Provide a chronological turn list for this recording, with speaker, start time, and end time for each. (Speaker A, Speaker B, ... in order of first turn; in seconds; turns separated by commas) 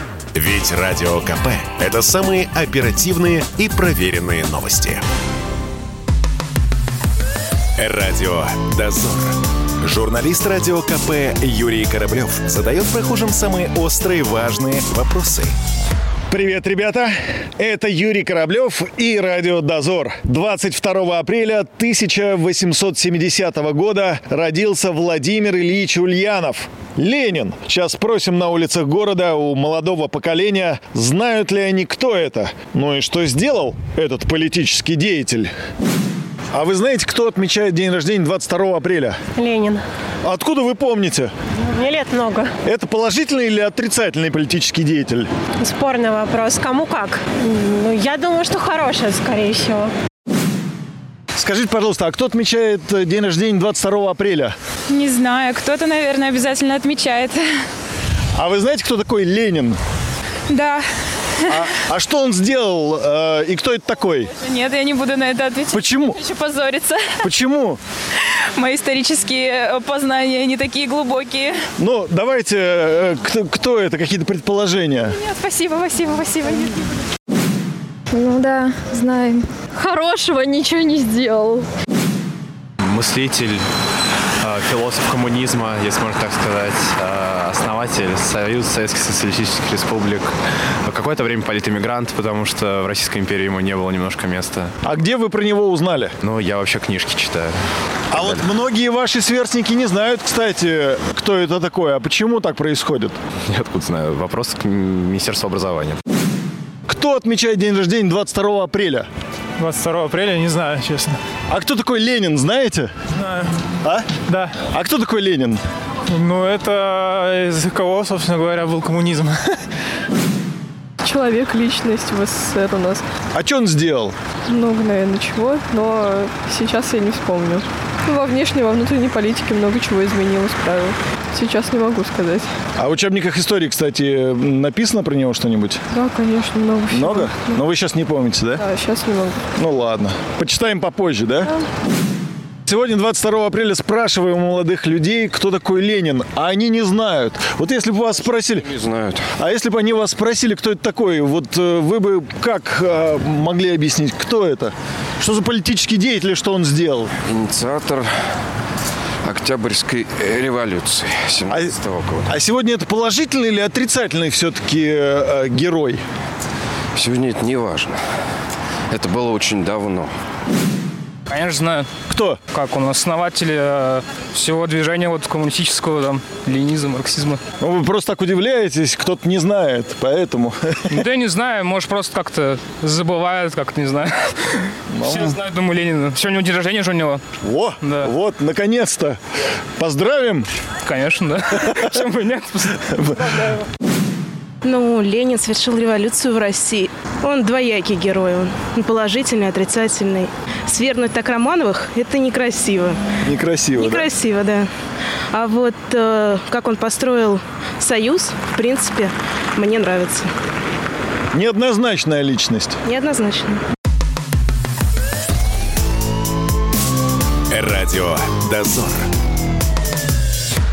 Speaker A: 0.3-5.0, Speaker A: 7.8-15.5, Speaker B: 16.3-35.5, Speaker B: 36.5-39.2, Speaker C: 39.4-39.8, Speaker B: 40.2-41.3, Speaker C: 41.6-42.5, Speaker B: 42.6-45.3, Speaker C: 45.6-49.9, Speaker B: 51.4-54.5, Speaker D: 54.9-57.5, Speaker B: 58.4-59.8, Speaker D: 60.5-60.9, Speaker B: 61.5-64.3, Speaker D: 64.4-67.2, Speaker B: 65.7-66.2, Speaker B: 67.2-67.8, Speaker D: 68.5-71.6, Speaker B: 71.8-75.2, Speaker D: 75.2-76.9, Speaker E: 78.1-81.7, Speaker F: 82.8-83.6, Speaker F: 84.4-90.3, Speaker F: 90.8-94.7, Speaker B: 94.8-96.2, Speaker F: 96.2-97.6, Speaker B: 98.1-103.2, Speaker F: 98.1-98.5, Speaker F: 103.5-106.0, Speaker B: 106.9-109.1, Speaker G: 109.6-111.2, Speaker B: 111.5-112.9, Speaker G: 113.2-113.5, Speaker B: 113.8-114.1, Speaker G: 114.3-114.6, Speaker B: 114.7-115.6, Speaker G: 116.1-119.5, Speaker H: 121.0-123.0, Speaker B: 123.3-124.2, Speaker H: 124.5-132.5, Speaker B: 132.8-135.8, Speaker H: 135.9-137.6, Speaker B: 136.9-138.6, Speaker H: 138.6-139.4, Speaker B: 139.6-141.5, Speaker B: 142.7-148.7, Speaker I: 148.3-149.3, Speaker B: 149.4-157.1, Speaker I: 157.2-158.1, Speaker I: 159.2-162.3, Speaker B: 161.5-166.0, Speaker I: 166.9-168.0, Speaker I: 168.9-170.1, Speaker J: 171.3-171.9, Speaker B: 172.1-172.4, Speaker J: 172.5-177.4, Speaker B: 177.6-181.1, Speaker J: 180.9-187.2, Speaker B: 184.9-185.4, Speaker B: 187.4-189.2, Speaker J: 187.8-188.1, Speaker B: 189.8-190.5, Speaker J: 190.8-193.1, Speaker B: 192.9-193.5, Speaker K: 194.6-203.0, Speaker B: 203.2-204.1, Speaker K: 203.8-204.7, Speaker K: 205.3-210.3, Speaker B: 211.3-212.8, Speaker K: 212.8-213.6, Speaker A: 217.5-219.1